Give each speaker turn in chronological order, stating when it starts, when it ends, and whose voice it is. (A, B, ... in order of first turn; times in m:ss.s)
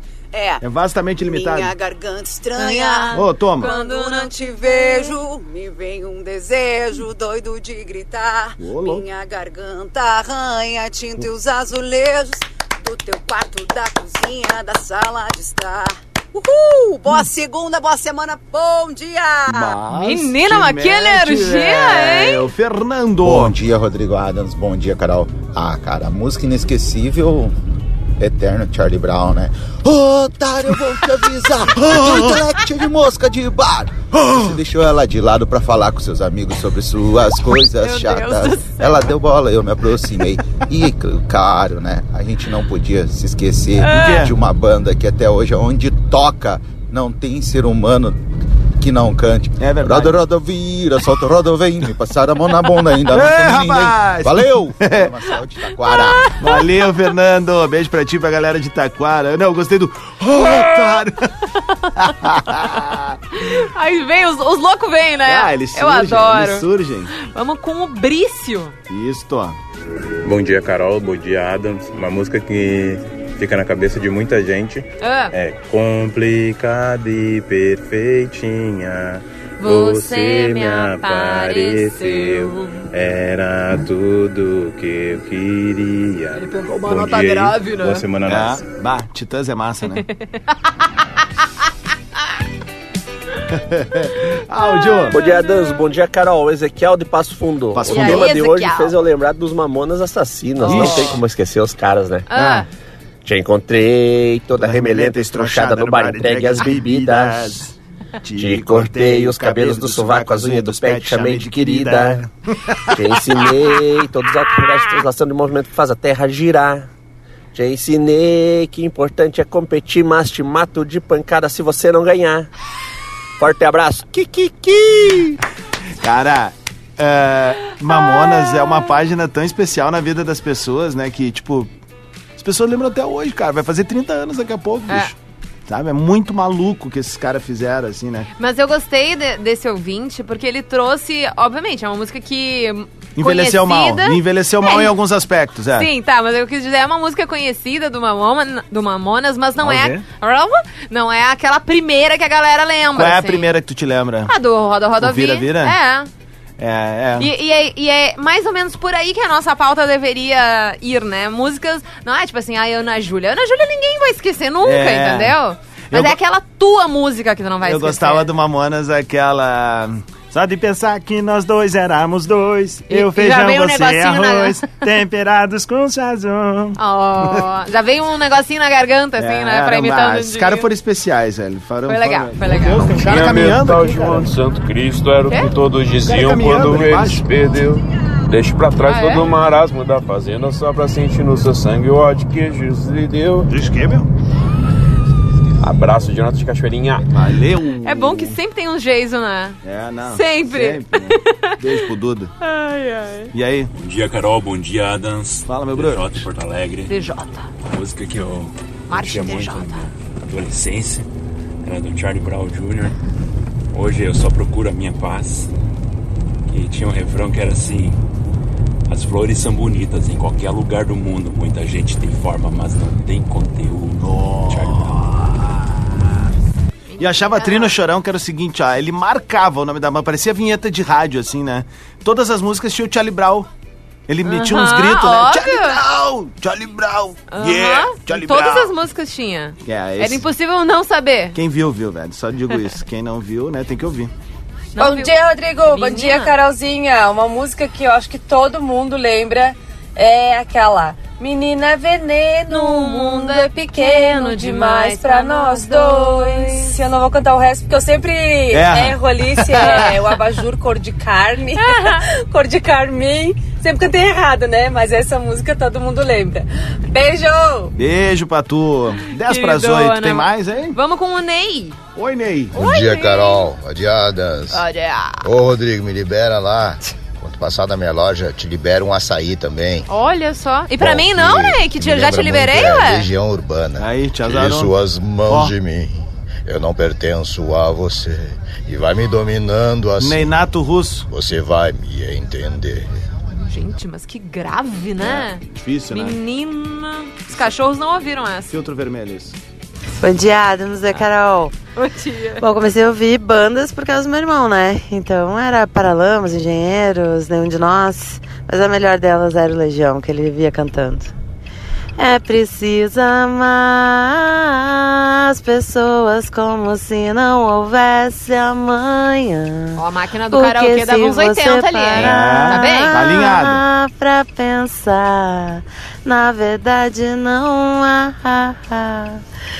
0:00.3-0:00.6 A
0:00.6-0:01.7 B
0:01.2-0:19.8 A
0:02.6-0:05.2 C
0:03.1-0:03.7 B
0:08.6-0:09.1 B
0:19.5-0:23.6 B
0:19.9-0:22.4 C
0:23.2-0:27.6 D
0:28.2-0:48.2 D
0:31.8-0:32.4 B
0:34.1-0:34.6 B
0:37.8-0:39.1 C
0:43.8-0:44.2 C
0:43.9-0:44.3 B
0:48.8-0:56.3 D
0:49.6-0:50.2 B
0:53.1-0:55.1 B
0:55.9-0:56.6 C
0:56.4-1:01.3 B
1:00.4-1:01.0 C
1:01.8-1:02.6 C
1:02.0-1:03.2 B
1:03.3-1:08.8 C
1:05.3-1:07.1 B
1:08.9-1:09.6 B
1:10.2-1:28.6 E
1:15.0-1:15.3 C
1:19.6-1:22.8 C
1:26.4-1:28.0 C
1:28.3-1:30.0 B
1:33.5-1:35.2 B
1:34.6-1:35.6 C
1:35.1-1:42.3 F
1:37.7-1:38.3 B
1:37.9-1:38.9 C
1:40.6-1:41.2 C
1:40.6-1:41.2 B
1:42.3-1:42.7 C
1:42.4-1:42.6 B
1:43.2-1:47.6 F
1:44.6-1:53.5 B
1:48.4-1:52.2 F
1:52.9-1:56.9 F
1:57.5-2:02.5 F
2:03.4-2:04.2 F
2:04.2-2:05.3 B
2:06.0-2:11.7 B
2:07.9-2:08.9 C
2:12.4-2:15.1 B
2:15.7-2:18.3 B
2:18.4-2:24.9 C
2:23.2-2:25.9 B
2:25.8-2:33.5 C
2:29.6-2:30.0 B
2:32.9-2:34.3 B
2:34.3-2:36.1 C
2:35.0-2:35.8 B
2:36.6-2:37.3 B
2:37.2-2:48.3 C
2:44.6-2:45.4 B
2:45.9-2:46.2 B
2:47.6-2:57.5 B
2:52.9-2:54.8 C
2:56.8-3:00.7 C
2:59.2-3:04.3 B
3:01.9-3:03.0 C
3:02.5-3:13.5 G
3:06.0-3:07.2 B
3:08.9-3:09.3 C
3:13.5-3:14.1 B
3:15.6-3:17.1 G
3:17.1-3:18.4 B
3:17.8-3:21.6 C
3:19.6-3:22.3 B
3:22.4-3:23.3 C
3:23.3-3:23.7 B
3:23.7-3:26.9 H
3:25.5-3:26.3 B
3:26.9-3:27.5 C
3:27.6-3:31.1 H
3:28.9-3:29.9 C
3:31.6-3:32.9 H
3:33.7-3:35.5 H
3:36.5-3:38.0 H
3:38.9-3:45.0 H
3:44.0-3:46.1 B
3:46.9-3:47.8 C
3:47.0-3:53.5 B
3:54.1-3:58.7 B
3:54.3-3:55.8 C
3:57.3-4:01.4 C
3:59.6-4:00.2 B
4:01.4-4:04.1 B
4:04.8-4:06.4 C
4:04.8-4:27.7 I
4:12.5-4:16.8 C
4:18.5-4:20.0 B
4:19.6-4:19.9 C
4:21.6-4:22.0 C
4:27.8-4:30.8 B
4:29.2-4:31.8 C
4:31.9-4:32.6 B
4:32.5-4:33.5 C
4:32.6-4:34.6 J
4:34.5-4:35.3 C
4:35.2-4:39.9 J
4:39.9-4:43.1 C
4:40.8-4:45.9 J
4:43.8-4:44.7 B
4:45.3-4:45.5 B
4:46.5-4:50.2 J
4:50.0-4:51.1 B
4:51.1-4:52.9 J
4:53.4-4:58.5 C
4:55.0-4:56.2 B
4:58.5-4:59.4 B
5:00.0-5:01.5 K
5:01.8-5:02.4 C
5:02.4-5:11.1 K
5:12.0-5:19.8 K
5:19.8-5:22.9 C
5:20.3-5:29.2 K
5:21.9-5:23.6 B